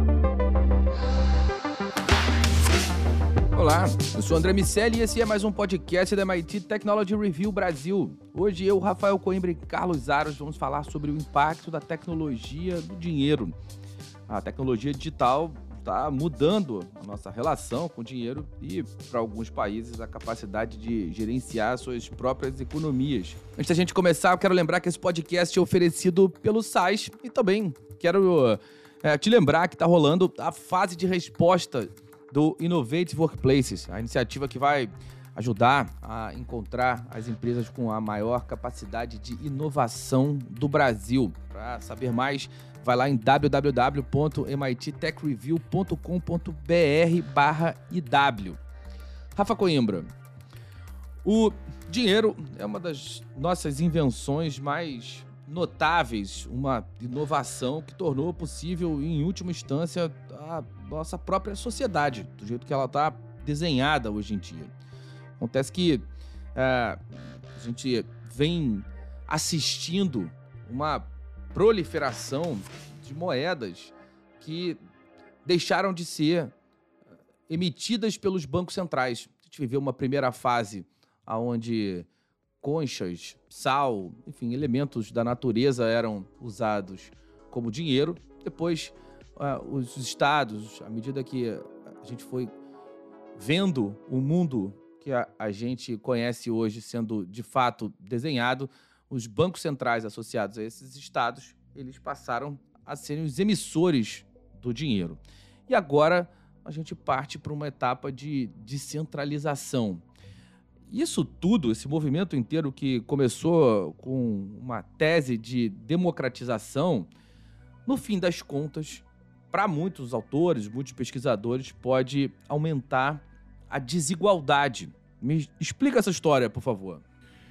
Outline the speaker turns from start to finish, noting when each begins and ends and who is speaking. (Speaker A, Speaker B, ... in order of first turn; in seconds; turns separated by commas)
Speaker A: 3.5-13.6, Speaker A: 14.3-48.6, Speaker A: 49.4-50.1, Speaker A: 51.2-64.7, Speaker A: 65.4-74.8, Speaker A: 75.4-76.5, Speaker A: 77.5-82.1, Speaker A: 82.6-92.5, Speaker A: 93.4-110.0, Speaker A: 110.9-117.1, Speaker A: 117.8-127.0